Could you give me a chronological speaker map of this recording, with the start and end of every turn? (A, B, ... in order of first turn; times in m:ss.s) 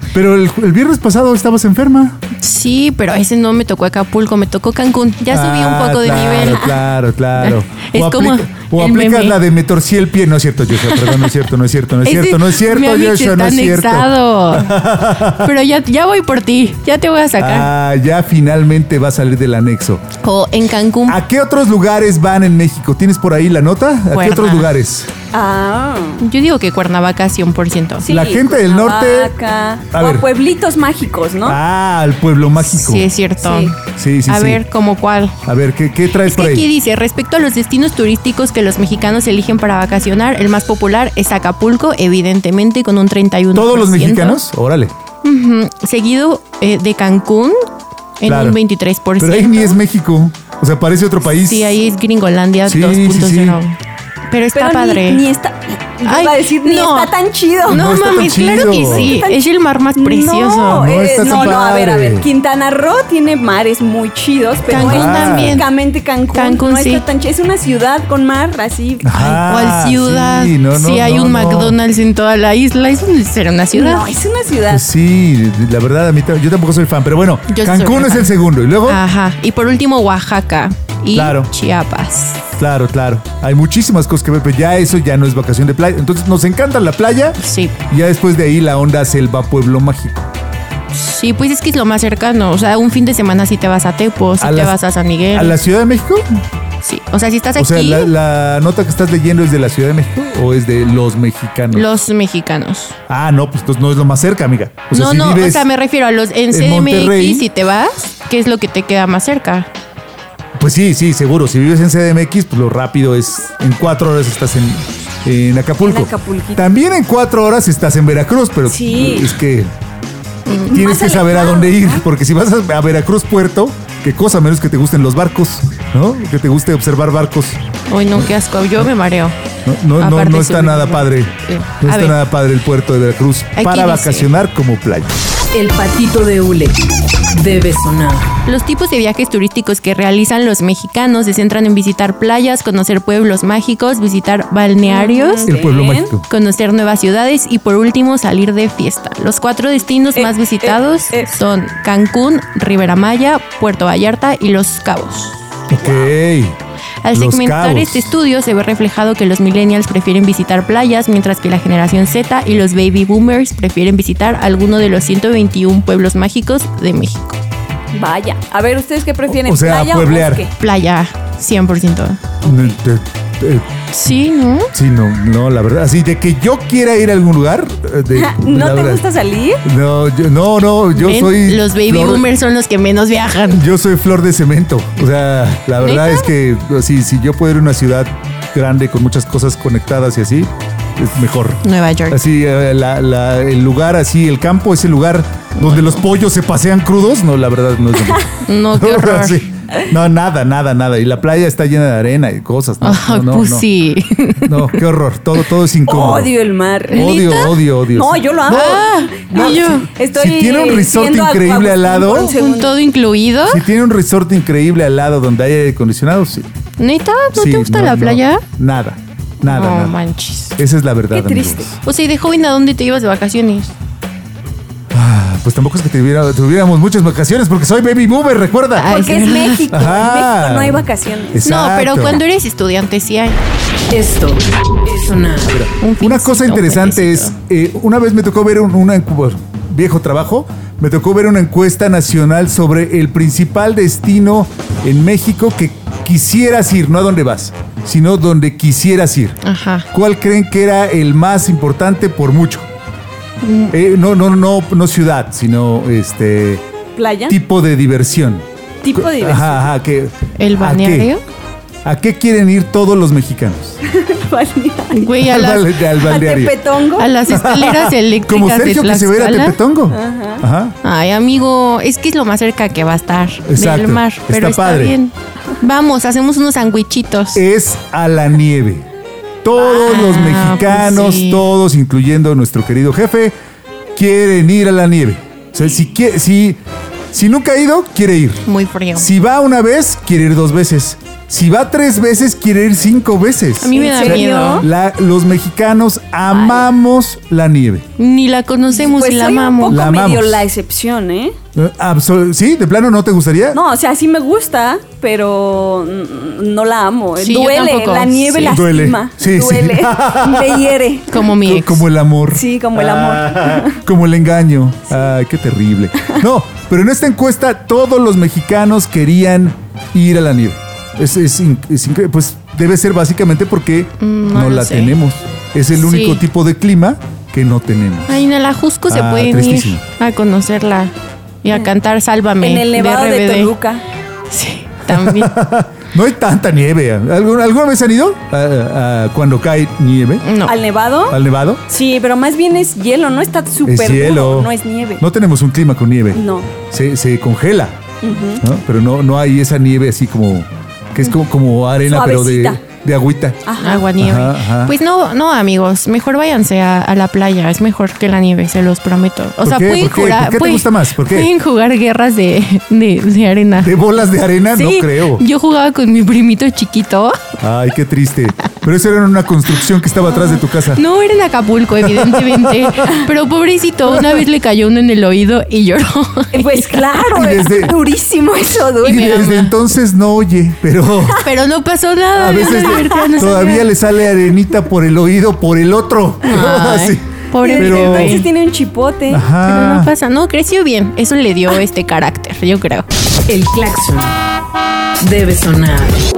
0:00.1-0:02.2 A
0:02.4-0:06.8 B
0:05.3-0:15.5 A
0:07.3-0:09.4 B
0:10.8-0:11.3 B
0:12.0-0:17.7 B
0:17.4-0:20.0 A
0:20.2-0:21.2 B
0:21.1-0:25.1 A
0:24.1-0:24.7 B
0:25.3-0:26.2 C
0:26.2-0:28.0 B
0:28.0-0:31.6 C
0:28.0-0:29.3 A
0:29.9-0:30.2 A
0:31.4-0:33.1 A
0:32.6-0:35.4 B
0:33.4-0:33.7 C
0:33.9-0:34.6 A
0:35.4-0:36.7 A
0:36.2-0:44.4 B
0:43.5-0:44.9 A
0:45.2-0:47.6 B
0:48.2-0:49.8 B
0:48.2-0:48.6 A
0:49.2-0:51.8 A
0:51.2-0:53.8 B
0:52.6-0:53.6 A
0:54.3-0:55.2 B
0:54.5-0:59.4 C
0:56.0-0:57.1 B
0:57.6-1:01.6 B
0:57.7-0:59.2 A
1:00.0-1:09.2 C
1:00.6-1:02.2 A
1:04.7-1:05.6 B
1:04.7-1:05.6 A
1:06.3-1:07.0 B
1:09.0-1:11.8 A
1:09.1-1:14.2 B
1:13.7-1:14.8 C
1:14.7-1:19.0 A
1:17.5-1:18.3 B
1:18.8-1:22.4 B
1:21.1-1:21.5 A
1:22.6-1:30.3 A
1:27.4-1:27.8 B
1:30.9-1:35.6 B
1:34.4-1:34.8 A
1:35.3-1:36.3 A
1:36.8-1:38.1 B
1:37.6-1:41.9 A
1:41.7-1:43.0 B
1:43.1-1:45.7 A
1:44.9-1:49.7 B
1:46.5-1:47.4 A
1:50.6-1:59.7 A
1:55.8-1:56.6 C
1:58.7-1:59.3 C
2:00.5-2:02.0 C
2:00.5-2:07.6 A
2:07.9-2:09.3 B
2:09.6-2:15.1 A
2:10.0-2:12.2 B
2:13.5-2:14.3 B
2:15.5-2:16.8 D
2:17.3-2:18.3 D
2:18.4-2:25.5 B
2:24.8-2:26.1 C
2:25.4-2:26.3 A
2:26.3-2:35.5 B
2:30.1-2:31.3 C
2:35.7-2:36.6 A
2:35.8-2:36.1 C
2:37.0-2:47.4 B
2:37.1-2:38.1 A
2:47.9-2:50.5 C
2:49.3-2:50.4 A
2:50.6-2:52.2 B
2:52.4-2:52.8 C
2:52.4-2:53.7 A
2:53.9-2:54.7 B
2:54.7-2:59.0 A
2:58.1-2:59.6 C
2:59.6-3:02.3 A
3:00.9-3:03.7 B
3:03.5-3:23.7 A
3:05.8-3:06.3 B
3:11.6-3:12.2 B
3:18.4-3:19.4 B
3:22.8-3:24.8 B
3:24.4-3:26.3 A
3:25.9-3:32.8 C
3:26.9-3:32.3 A
3:26.9-3:27.5 B
3:28.5-3:29.9 B
3:32.1-3:33.6 B
3:33.5-3:36.5 A
3:36.8-3:38.4 B
3:37.3-3:40.0 A
3:39.4-3:40.6 B
3:40.6-3:41.8 A
3:41.1-3:41.7 C
3:41.8-3:43.7 B
3:44.9-3:48.9 A
3:48.7-3:49.8 B
3:48.9-3:51.5 C
3:49.7-3:52.2 A
3:51.4-3:53.4 B
3:53.9-3:55.6 D
3:55.5-4:09.4 A
3:55.8-3:57.3 B
4:09.4-4:09.9 B
4:09.9-4:12.7 A
4:13.4-4:13.7 B
4:13.7-4:16.6 A
4:17.0-4:17.4 C
4:17.3-4:21.1 A
4:18.8-4:19.7 C
4:20.4-4:21.2 B
4:21.8-4:23.8 A
4:23.8-4:25.1 C
4:24.9-4:25.9 B
4:25.2-4:26.6 A
4:26.0-4:27.1 C
4:27.0-4:29.6 B
4:27.3-4:30.7 A
4:29.9-4:30.4 C
4:30.8-4:37.4 B
4:33.4-4:35.0 A
4:37.3-4:38.8 A
4:39.4-4:43.3 A
4:39.6-4:41.4 B
4:43.9-4:46.6 A
4:47.1-4:57.8 A
4:48.4-4:49.1 B
4:53.6-4:54.6 B
4:53.7-4:54.6 C
4:56.3-4:56.7 C
4:58.0-4:59.8 B
4:58.7-5:01.3 C
4:59.6-5:00.5 A
5:01.5-5:03.6 A
5:03.5-5:11.2 C
5:07.2-5:08.6 B
5:08.4-5:28.2 A
5:11.1-5:11.8 B
5:12.3-5:13.8 C
5:24.0-5:25.0 B
5:25.7-5:26.2 B
5:28.1-5:30.9 B
5:28.9-5:29.8 A
5:31.4-5:33.5 B
5:32.4-5:33.8 C
5:34.3-5:35.4 B
5:34.9-5:40.3 A
5:40.2-5:40.6 B
5:40.4-5:45.0 C
5:41.1-5:41.6 A
5:43.6-5:47.8 A
5:46.1-5:46.5 C
5:48.0-5:48.4 C
5:48.4-5:53.4 A
5:51.8-5:52.6 C
5:53.4-5:53.9 C
5:53.6-6:03.8 B
5:54.0-5:54.7 A
5:59.4-6:01.3 A
6:03.6-6:05.2 A
6:04.5-6:07.2 B
6:07.4-6:10.8 A
6:10.0-6:16.8 B
6:11.8-6:13.1 A
6:13.9-6:14.2 A
6:16.3-6:19.2 C
6:17.1-6:17.8 A
6:18.8-6:21.2 A
6:18.8-6:19.6 B
6:21.2-6:23.7 B
6:22.2-6:27.0 A
6:26.2-6:28.2 B
6:27.4-6:29.2 C
6:27.5-6:28.2 A
6:29.1-6:29.9 A
6:29.4-6:32.8 B
6:33.3-6:34.1 D
6:35.0-6:36.0 D